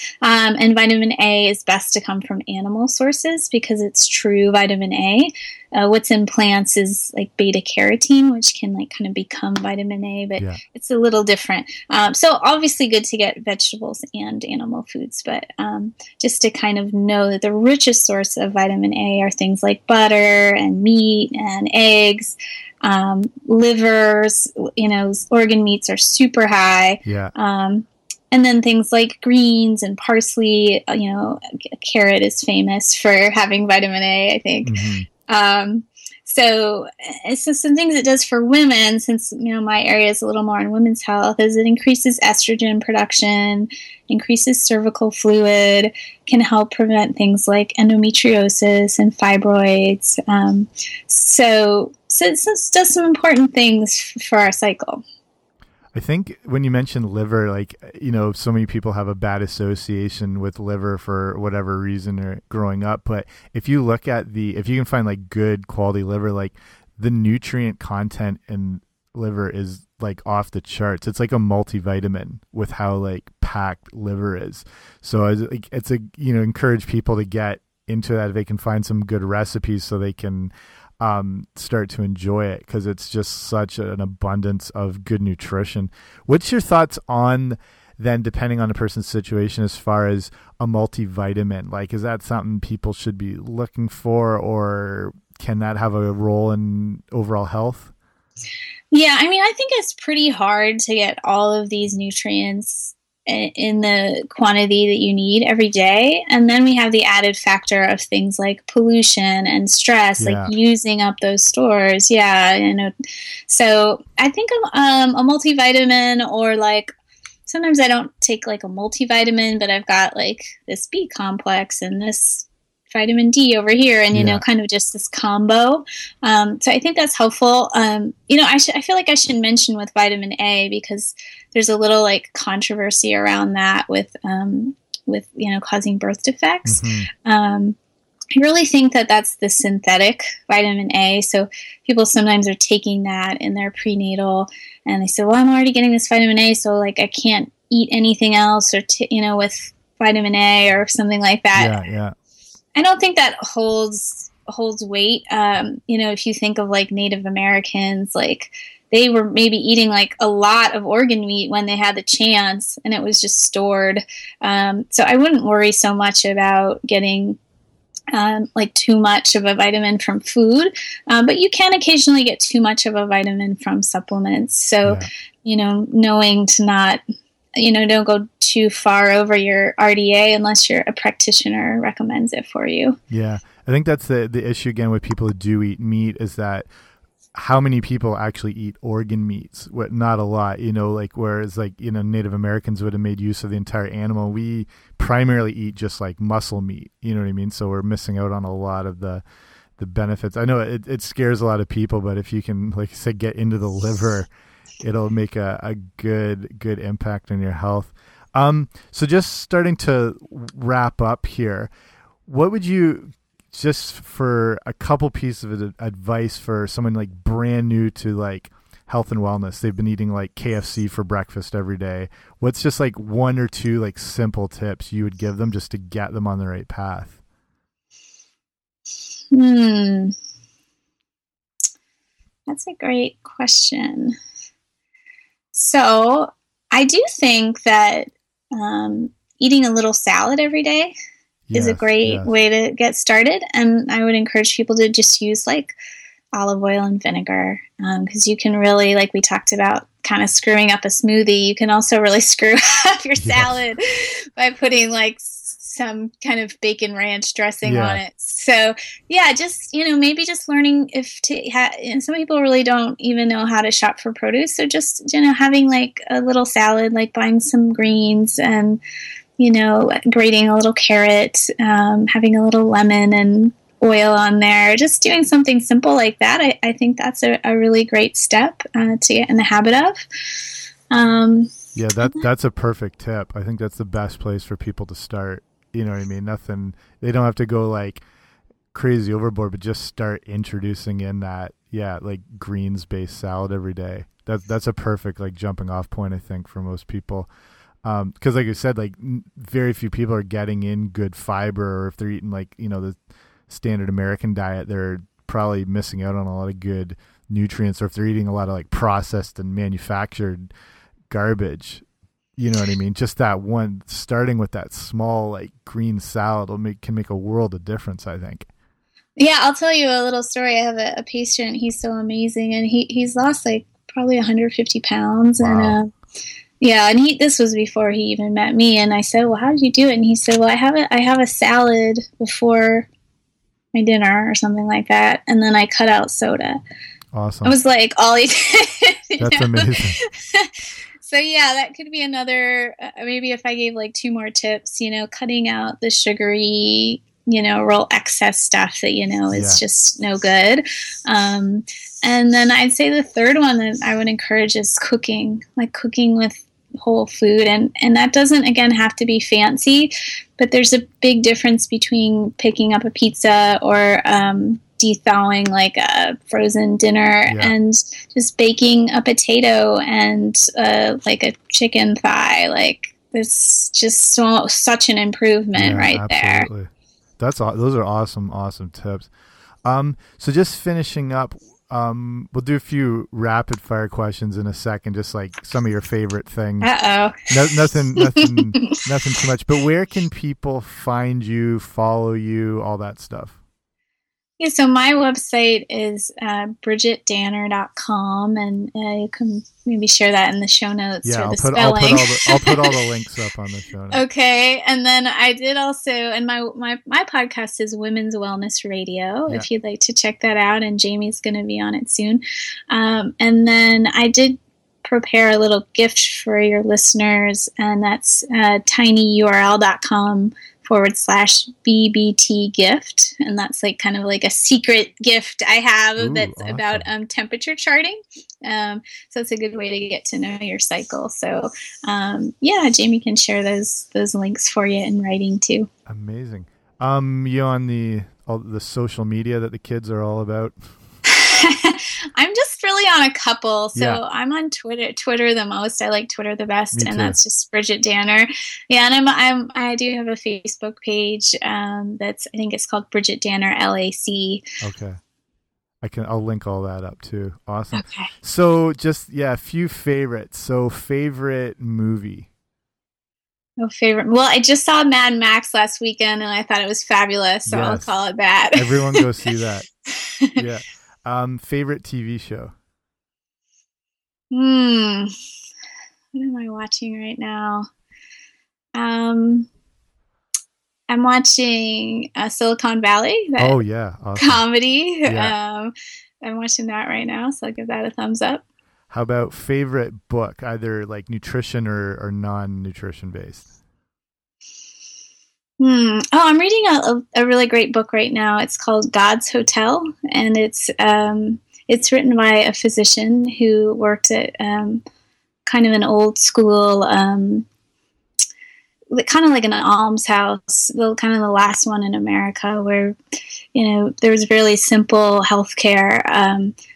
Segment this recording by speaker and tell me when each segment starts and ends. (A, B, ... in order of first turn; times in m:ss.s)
0:00.2-0:55.0 A
0:27.1-0:27.3 B
0:34.6-0:35.1 B
0:55.9-1:37.9 B
1:38.9-1:52.9 A
1:50.2-1:50.5 B
1:53.5-1:56.9 A
1:57.4-2:17.8 A
2:04.1-2:04.4 B
2:16.6-2:17.1 B
2:18.4-2:31.9 A
2:31.6-2:32.1 B
2:32.8-2:47.4 A
2:48.1-2:57.0 A
2:57.6-3:03.0 A
3:03.1-3:06.6 B
3:07.3-3:19.2 B
3:19.8-3:24.3 B
3:24.8-3:31.7 B
3:32.2-3:47.2 B
3:49.3-3:50.1 A
3:52.5-3:54.2 A
3:55.5-4:00.9 A
4:01.5-4:02.3 B
4:01.5-4:05.7 A
4:06.3-4:28.8 A
4:13.2-4:13.6 B
4:17.6-4:18.0 B
4:29.4-4:40.1 A
4:40.9-4:42.2 A
4:41.7-4:48.0 B
4:48.7-4:57.3 B
4:57.8-5:02.9 B
5:03.5-5:10.5 B
5:11.1-5:11.8 B
5:12.4-5:18.5 B
5:19.2-5:25.9 A
5:25.4-5:25.8 B
5:26.6-5:32.9 A
5:33.7-5:36.6 A
5:37.1-5:37.6 B
5:37.4-6:16.5 A
5:39.2-5:40.0 B
5:49.3-5:49.6 B
6:07.3-6:07.5 B
6:15.6-6:19.1 B
6:19.6-6:26.7 B
6:26.6-6:28.7 A
6:27.3-6:33.4 B
6:34.4-6:42.8 A
6:41.0-6:44.0 B
6:43.9-7:15.7 A
7:06.0-7:06.9 B
7:15.9-7:20.6 B
7:21.0-7:34.4 A
7:23.8-7:24.0 B
7:26.7-7:27.2 B
7:34.6-7:35.0 B
7:35.8-7:42.3 B
7:37.7-7:38.1 A
7:43.6-7:49.0 A
7:47.5-7:48.0 B
7:48.5-7:49.7 B
7:49.9-7:50.4 A
7:50.3-7:52.5 B
7:54.3-7:55.1 A
7:56.1-7:57.7 A
7:58.7-7:59.5 A
8:00.9-8:03.6 A
8:03.4-8:04.4 B
8:04.2-8:08.4 A
8:05.0-8:05.3 B
8:08.9-8:13.5 B
8:15.6-8:24.8 A
8:25.4-8:27.5 A
8:28.9-8:33.0 A
8:33.6-8:36.6 A